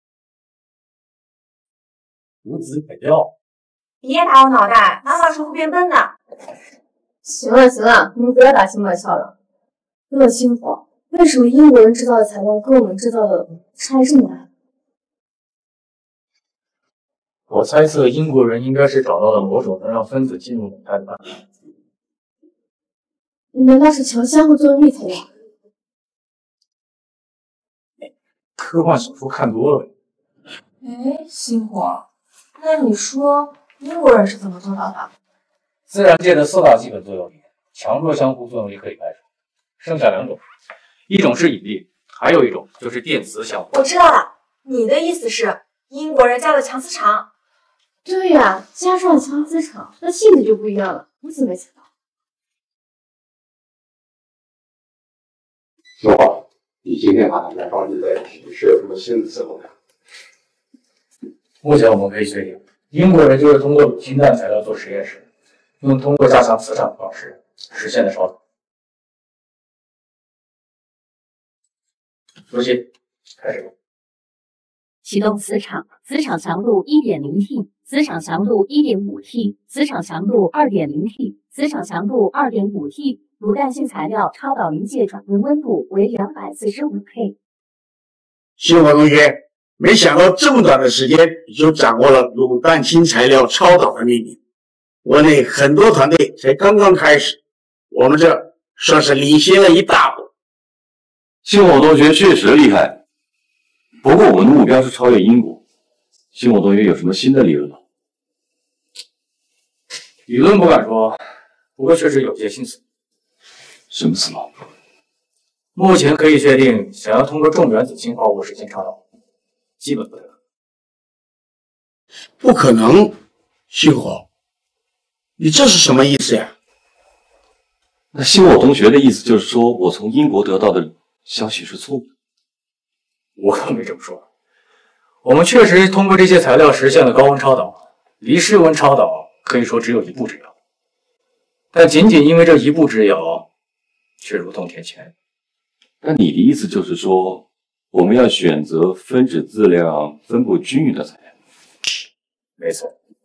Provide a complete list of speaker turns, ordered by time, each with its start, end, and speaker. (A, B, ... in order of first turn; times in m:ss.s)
0:02.4-0:03.3 A
0:04.0-0:06.1 B
0:07.2-0:09.3 C
0:10.1-0:14.5 C
0:17.5-0:21.3 A
0:23.5-0:25.3 C
0:28.6-0:29.9 A
0:30.8-0:32.0 B
0:32.6-0:35.1 B
0:35.9-0:39.2 A
0:39.8-0:40.4 A
0:41.1-0:43.7 A
0:43.7-0:47.3 B
0:48.0-0:51.8 C
0:56.0-0:59.7 D
1:01.6-1:05.2 A
1:05.8-1:08.4 A
1:12.5-1:13.7 A
1:15.0-1:27.3 E
1:28.6-1:34.4 F
1:35.0-1:37.4 F
1:37.9-1:40.3 F
1:41.4-1:43.0 G
1:44.0-1:45.6 G
1:46.3-1:47.8 G
1:50.3-1:51.2 A
1:51.8-1:52.8 A
1:53.9-1:54.5 G
1:55.7-1:59.0 A
1:59.8-2:00.3 A
2:02.4-2:03.1 F
2:03.7-2:04.2 F
2:05.4-2:06.5 F
2:08.1-2:12.1 G
2:13.4-2:14.2 A
2:15.2-2:20.5 A
2:21.7-2:23.4 A
2:24.2-2:25.1 A
2:26.0-2:31.3 G
2:32.6-2:32.9 A